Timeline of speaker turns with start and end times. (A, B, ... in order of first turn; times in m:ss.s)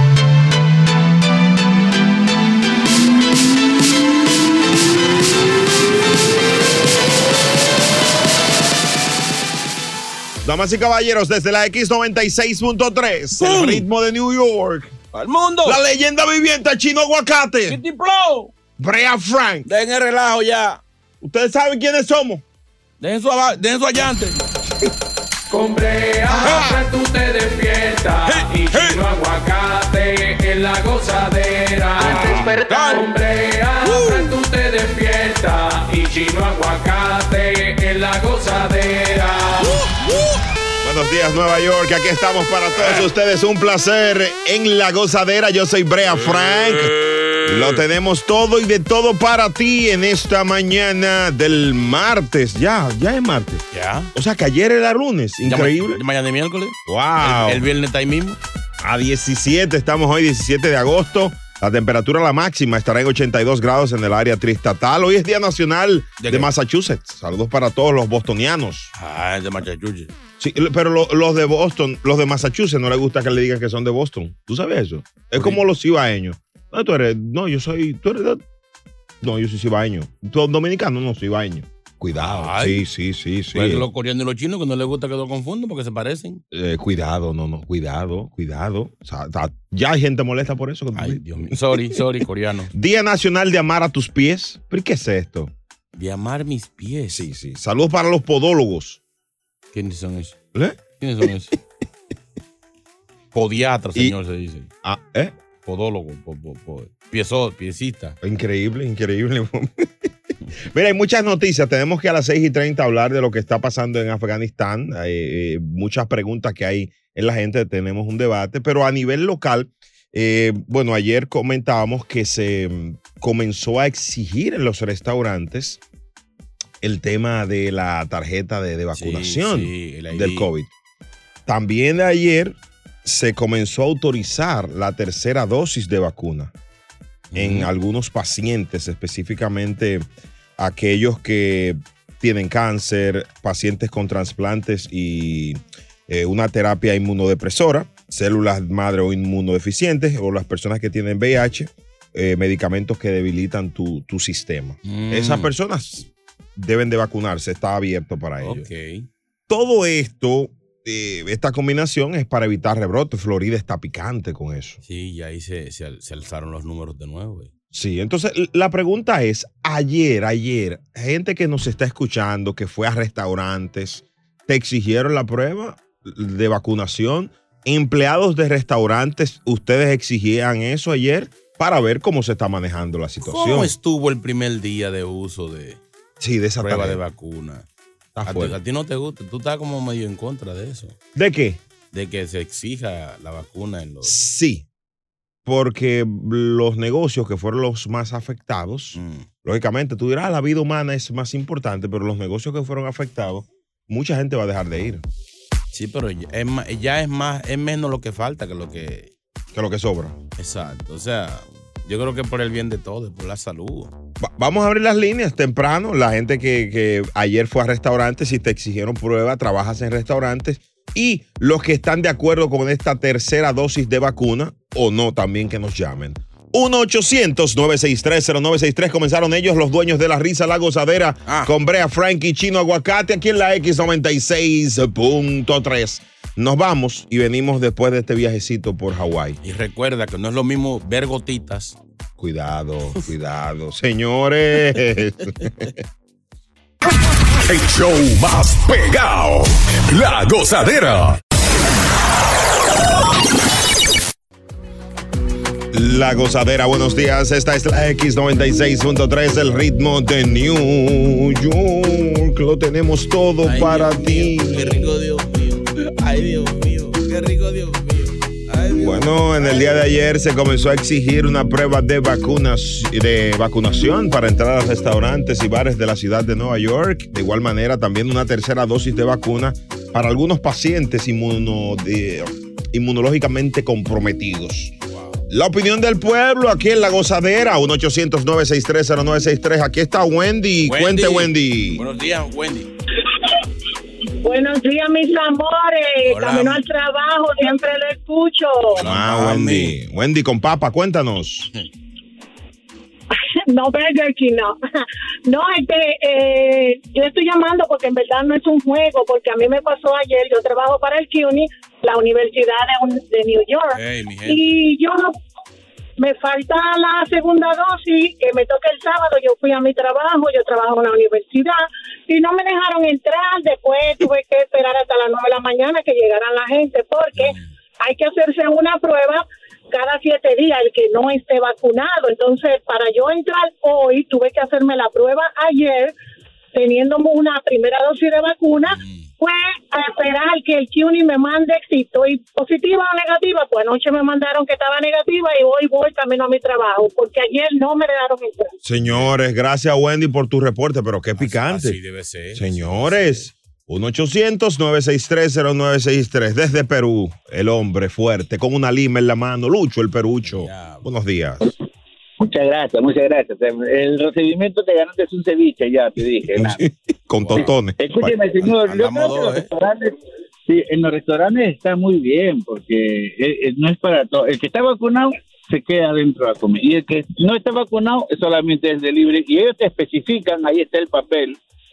0:10.4-0:15.0 A
0:13.4-0:13.8 B
0:15.1-0:15.8 B
0:15.6-0:17.8 A
0:17.7-0:18.5 B
0:18.8-0:19.7 A
0:19.6-0:20.8 B
0:21.2-0:22.4 A
0:23.0-0:24.4 B
0:25.5-0:39.8 C
0:26.4-0:26.7 A
0:26.4-0:26.7 B
0:28.3-0:29.0 B
0:32.0-0:33.0 B
0:33.8-0:34.3 B
0:40.8-0:46.9 A
0:47.4-0:53.6 A
0:53.7-0:54.1 B
0:54.1-0:56.0 A
0:55.4-0:58.4 B
0:56.9-0:57.6 A
0:58.8-1:08.9 A
1:06.2-1:06.5 B
1:09.0-1:10.1 B
1:10.4-1:18.4 A
1:15.4-1:15.6 B
1:19.2-1:23.9 A
1:22.2-1:22.8 B
1:23.5-1:26.4 B
1:26.5-1:31.2 A
1:31.0-1:32.7 B
1:32.7-1:35.5 A
1:36.0-1:37.3 B
1:37.1-1:39.0 A
1:39.7-1:40.4 B
1:41.0-1:41.6 B
1:43.3-1:44.7 B
1:44.8-1:45.3 A
1:45.6-1:48.2 B
1:48.2-1:50.1 A
1:50.7-2:05.8 A
2:06.8-2:10.7 A
2:09.0-2:10.5 B
2:11.5-2:16.5 A
2:17.3-2:17.7 B
2:17.4-2:38.7 A
2:34.8-2:35.5 B
2:38.4-2:39.1 B
2:39.5-2:44.8 A
2:44.8-2:47.5 B
2:47.7-3:03.7 A
3:03.2-3:05.8 B
3:06.2-3:07.0 A
3:06.6-3:07.7 B
3:08.2-3:08.6 A
3:08.2-3:11.0 B
3:11.2-3:11.6 A
3:11.9-3:14.2 B
3:14.0-3:14.6 A
3:15.5-3:25.0 A
3:19.0-3:19.3 B
3:25.7-3:29.1 B
3:29.5-3:30.2 A
3:30.4-3:33.9 B
3:34.2-3:59.4 A
3:59.4-4:01.8 B
4:02.2-4:05.5 A
4:07.5-4:11.2 D
4:15.7-4:24.8 A
4:23.4-4:29.8 B
4:28.8-4:44.7 A
4:44.9-4:45.2 B
4:45.3-4:51.8 A
4:50.6-4:52.7 B
4:54.2-4:58.8 E
4:56.1-4:56.6 B
4:58.8-4:59.8 B
4:58.8-5:01.5 A
5:03.2-5:15.2 E
5:13.7-5:14.4 B
5:16.0-5:35.9 E
5:27.2-5:27.5 B
5:36.5-5:48.6 E
5:38.7-5:39.1 B
5:48.6-5:51.8 A
5:48.8-5:49.1 B
5:51.2-5:53.3 B
5:52.3-6:01.5 A
6:00.2-6:00.9 B
6:02.2-6:06.6 F
6:06.3-6:08.3 A
6:07.2-6:07.5 B
6:07.8-6:09.9 F
6:08.4-6:09.5 B
6:10.5-6:21.4 F